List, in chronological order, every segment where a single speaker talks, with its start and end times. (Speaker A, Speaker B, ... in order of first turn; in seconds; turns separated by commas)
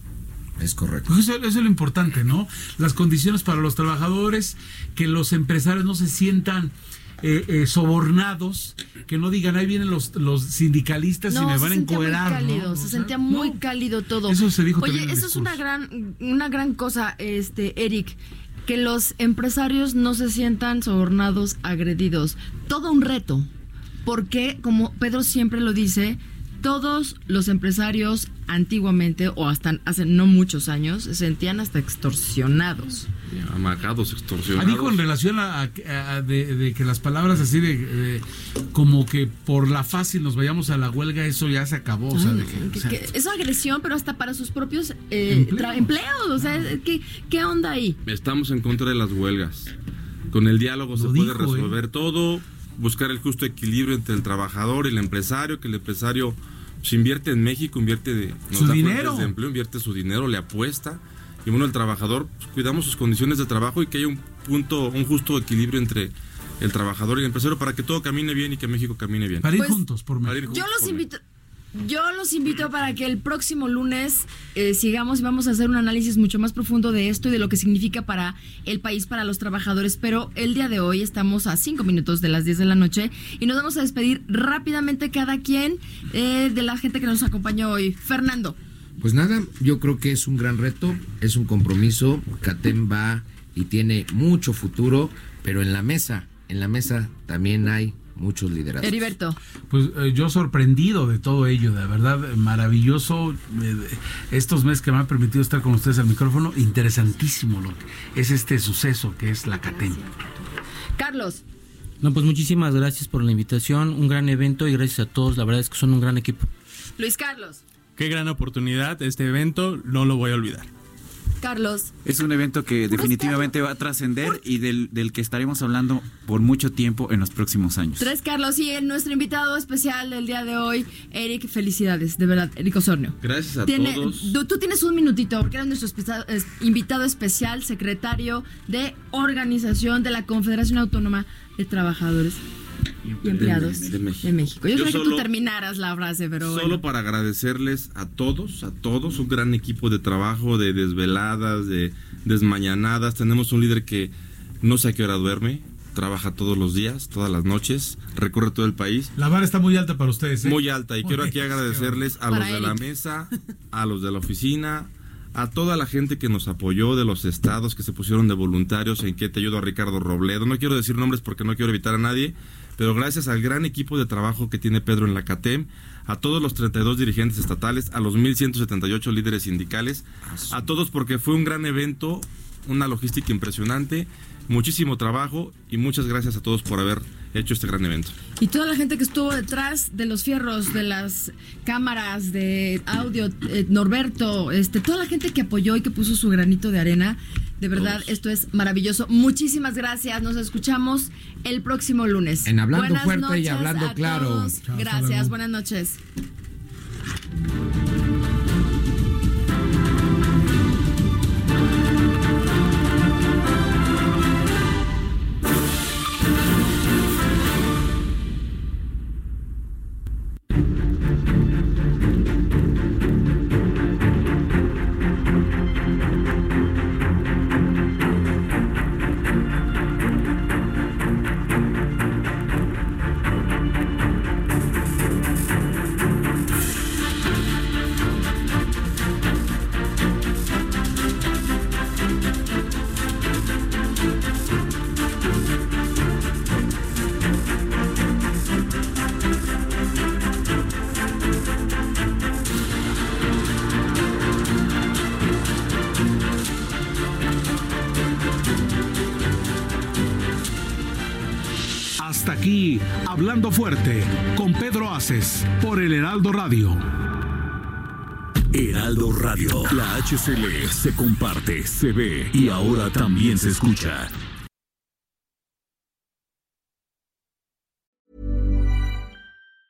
Speaker A: 0.6-1.1, Speaker B: 1.1-13.6, Speaker C: 11.3-23.5, Speaker B: 14.2-15.6, Speaker C: 24.0-33.1, Speaker D: 33.3-35.0, Speaker B: 34.5-43.0, Speaker C: 42.1-48.0, Speaker B: 45.3-46.7, Speaker D: 48.0-49.7, Speaker D: 50.3-69.6, Speaker B: 50.9-51.8, Speaker B: 58.5-59.3, Speaker B: 69.4-70.6, Speaker C: 69.5-69.8, Speaker D: 70.2-71.0, Speaker C: 70.5-71.2, Speaker C: 71.7-88.6, Speaker A: 89.0-99.1, Speaker C: 98.8-99.4, Speaker B: 99.7-110.1, Speaker C: 111.0-111.4, Speaker E: 112.0-116.5, Speaker C: 117.0-117.6, Speaker F: 118.0-120.7, Speaker C: 121.4-121.9, Speaker G: 122.0-128.1, Speaker C: 122.9-123.5, Speaker C: 128.0-142.4, Speaker D: 133.2-134.3, Speaker G: 143.1-143.9, Speaker D: 143.2-145.2, Speaker C: 143.2-146.8, Speaker D: 146.4-159.1, Speaker B: 159.2-162.0, Speaker D: 160.4-188.1, Speaker C: 162.3-162.8, Speaker C: 188.4-206.0, Speaker A: 202.4-204.6, Speaker B: 204.6-205.3, Speaker B: 262.0-266.8, Speaker H: 268.5-274.1